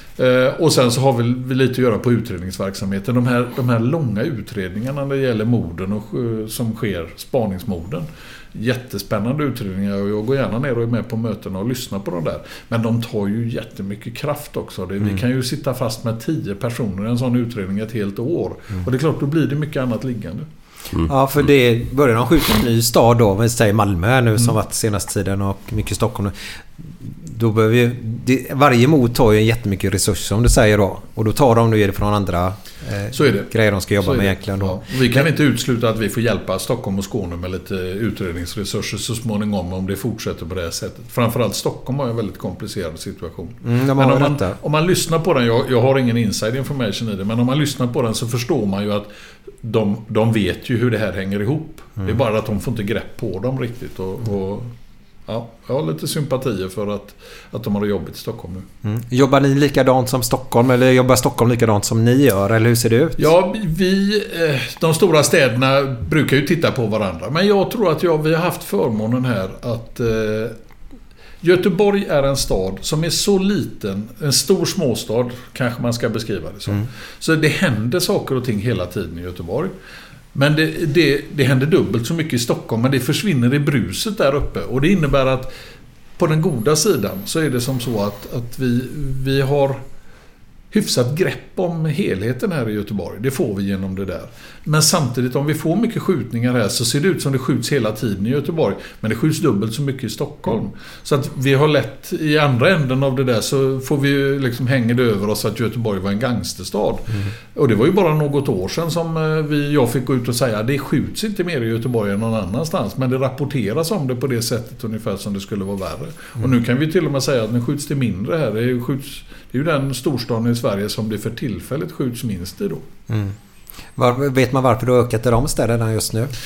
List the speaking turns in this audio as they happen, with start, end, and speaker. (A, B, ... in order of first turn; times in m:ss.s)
0:00.2-0:20.5 A
0:21.1-0:35.2 B
0:33.1-0:49.1 A
0:43.6-0:44.6 B
0:49.6-0:54.7 A
0:55.3-0:58.7 A
0:58.8-1:03.2 B
1:03.2-1:10.5 A
1:11.4-1:19.7 A
1:20.3-1:25.5 A
1:26.2-1:29.8 A
1:30.7-2:02.8 A
2:03.1-2:03.4 B
2:04.0-2:06.3 B